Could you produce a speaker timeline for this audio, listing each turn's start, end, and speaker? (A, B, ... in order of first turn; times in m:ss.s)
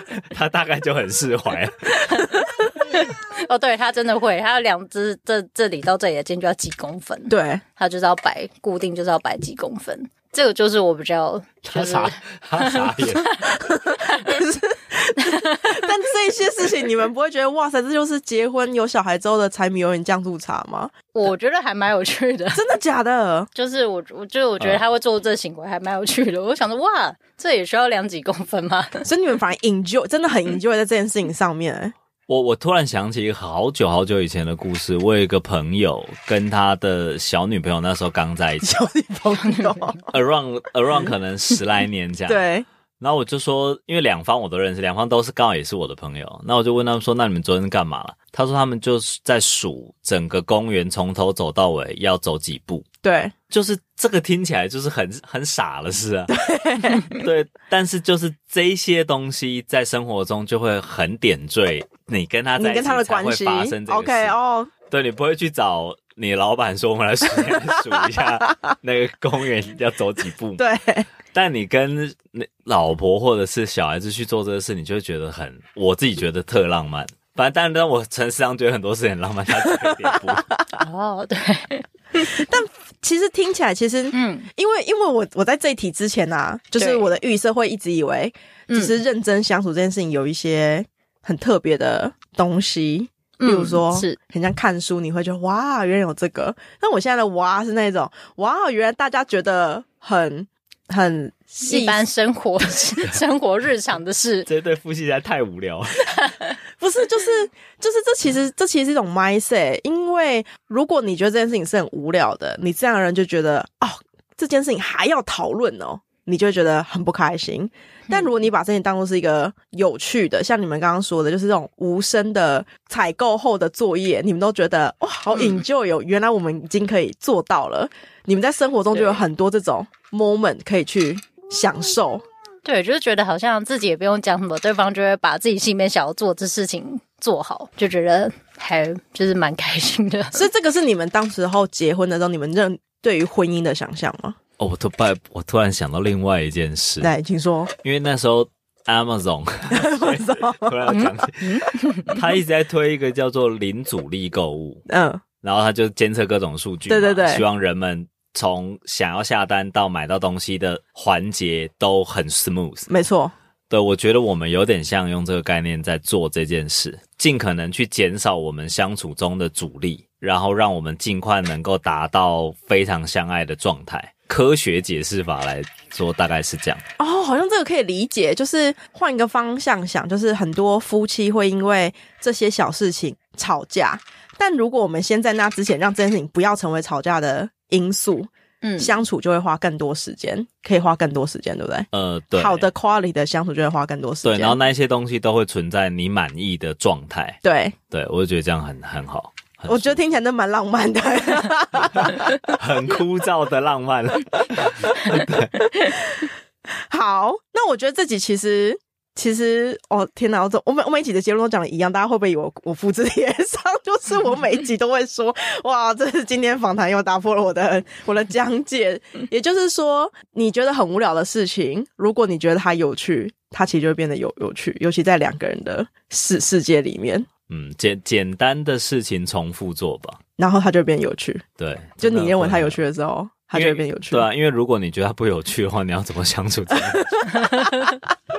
0:00.3-0:02.4 A
0:02.1-0:14.4 B
0:07.3-0:07.6 C
0:11.7-0:13.3 A
0:13.4-0:20.9 C
0:15.2-0:15.9 B
0:21.1-0:22.6 B
0:22.5-0:23.5 C
0:23.5-0:29.0 B
0:29.0-0:31.9 C
0:32.3-0:38.7 A
0:38.6-0:40.1 C
0:40.1-0:42.4 A
0:42.3-0:42.6 C
0:43.0-0:52.8 A
0:53.0-0:53.3 C
0:53.5-0:56.3 A
0:56.3-0:57.1 C
0:57.1-1:04.4 A
1:02.6-1:04.7 C
1:04.9-1:10.6 A
1:10.6-1:11.1 C
1:11.3-1:20.5 A
1:20.8-1:21.8 B
1:22.1-1:42.0 C
1:24.1-1:24.5 B
1:26.8-1:27.1 B
1:33.4-1:34.2 B
1:41.6-1:44.5 B
1:44.4-1:46.1 A
1:46.1-1:46.5 B
1:46.8-2:12.2 C
2:05.3-2:05.6 B
2:08.9-2:09.2 B
2:12.6-2:20.4 B
2:20.3-2:24.4 C
2:24.6-2:27.1 A
2:27.0-2:27.7 C
2:27.8-2:34.8 A
2:29.7-2:30.9 C
2:30.9-2:32.2 B
2:34.9-2:35.2 C
2:35.4-2:42.9 A
2:36.9-2:37.4 C
2:42.9-2:43.3 C
2:43.7-2:56.8 A
2:57.0-3:14.6 C
3:08.6-3:09.0 B
3:11.9-3:12.7 A
3:14.2-3:17.4 A
3:17.4-3:17.8 C
3:17.9-3:20.0 A
3:19.7-3:22.4 C
3:22.0-3:25.7 A
3:25.8-3:47.3 C
3:47.5-3:50.2 A
3:50.4-3:51.4 C
3:51.6-3:52.8 A
3:52.0-3:54.3 C
3:53.5-3:57.6 A
3:57.3-3:57.9 C